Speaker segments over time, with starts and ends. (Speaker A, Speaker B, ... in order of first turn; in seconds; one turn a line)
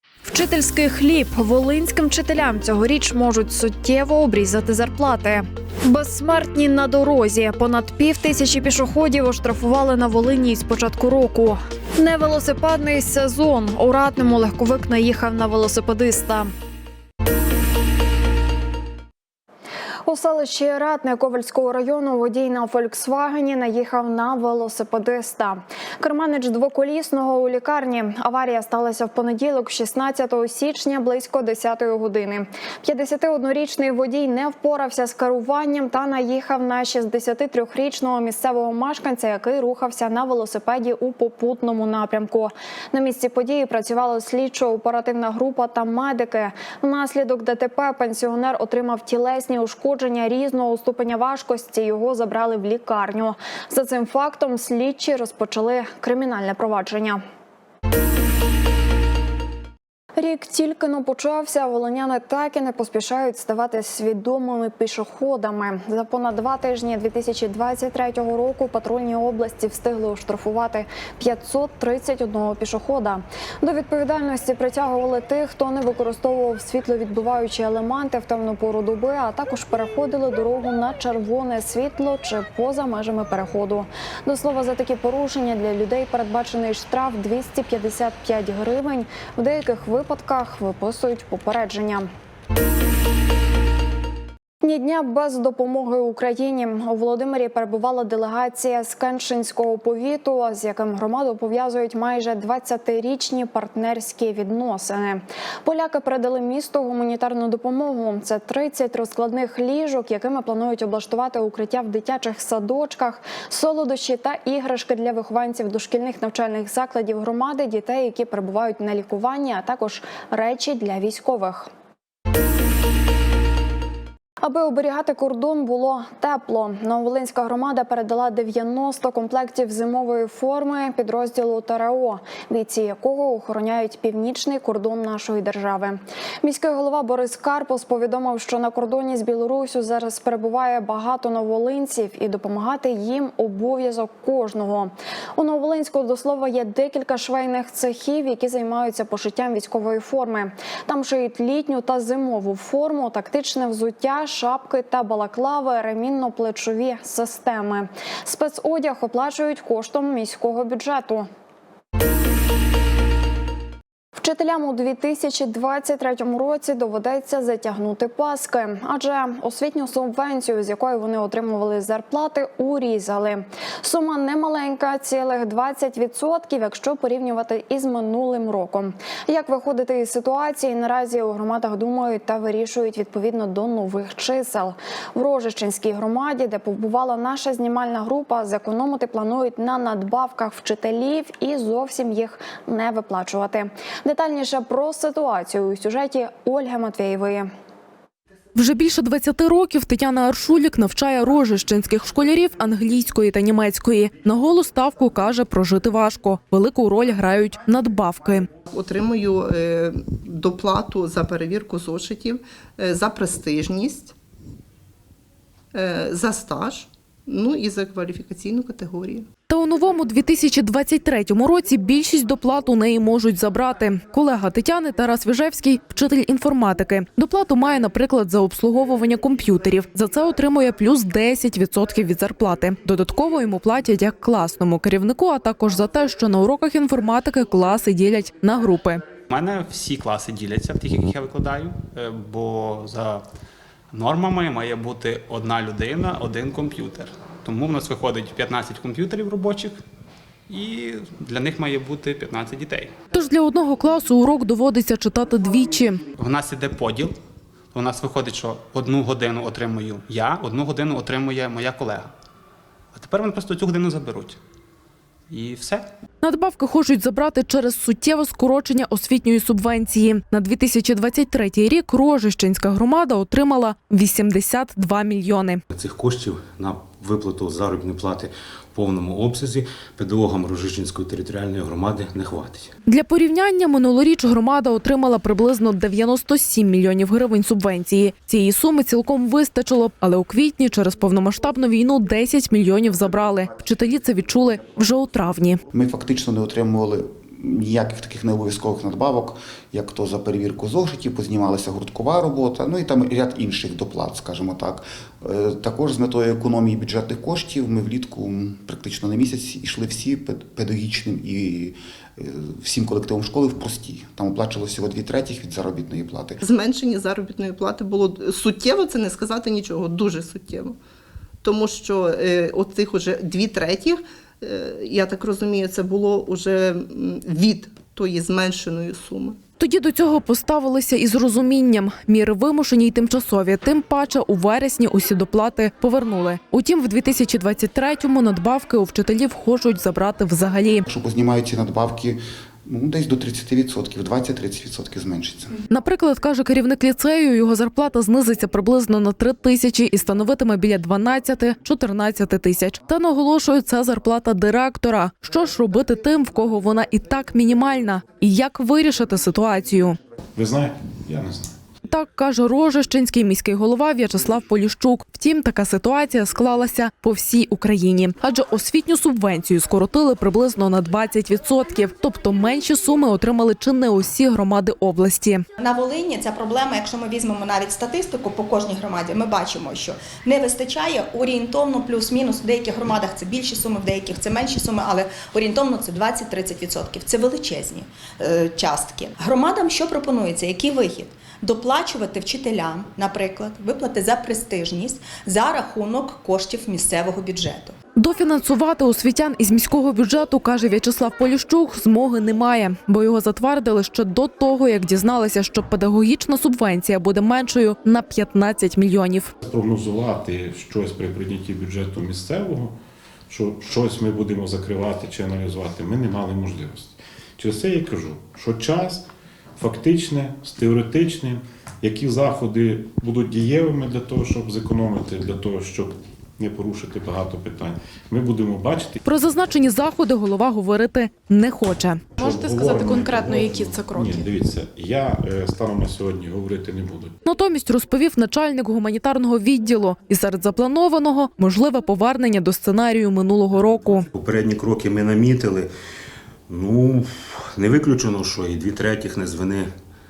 Speaker A: 0.2-16.5
Speaker A: 20.0-57.2
Speaker A: 60.1-92.1
Speaker A: 94.6-121.7
Speaker A: 124.4-161.3
Speaker A: 164.2-197.5
Speaker B: 198.5-208.5
Speaker C: 208.7-214.1
Speaker C: 215.7-219.3
Speaker B: 219.5-239.0
Speaker D: 239.3-243.2
Speaker D: 243.9-249.8
Speaker D: 250.5-252.9
Speaker B: 253.1-256.0
Speaker D: 256.1-257.1
Speaker D: 257.7-262.1
Speaker D: 262.9-264.4
Speaker D: 265.3-265.9
Speaker B: 266.2-275.6
Speaker E: 275.7-282.7
Speaker B: 282.9-295.6
Speaker F: 295.7-316.4
Speaker C: 316.4-320.8
Speaker C: 321.4-329.4
Speaker B: 329.6-340.8
Speaker F: 340.9-345.6
Speaker B: 345.7-360.0
Speaker G: 360.4-361.5
Speaker B: 361.9-375.4
Speaker H: 375.6-397.7
Speaker B: 397.9-409.3
Speaker G: 409.4-412.8
Speaker G: 413.3-419.0
Speaker G: 419.6-429.0
Speaker B: 429.0-434.3
Speaker G: 432.2-437.1
Speaker B: 437.2-444.1
Speaker E: 444.1-445.7
Speaker E: 446.5-449.7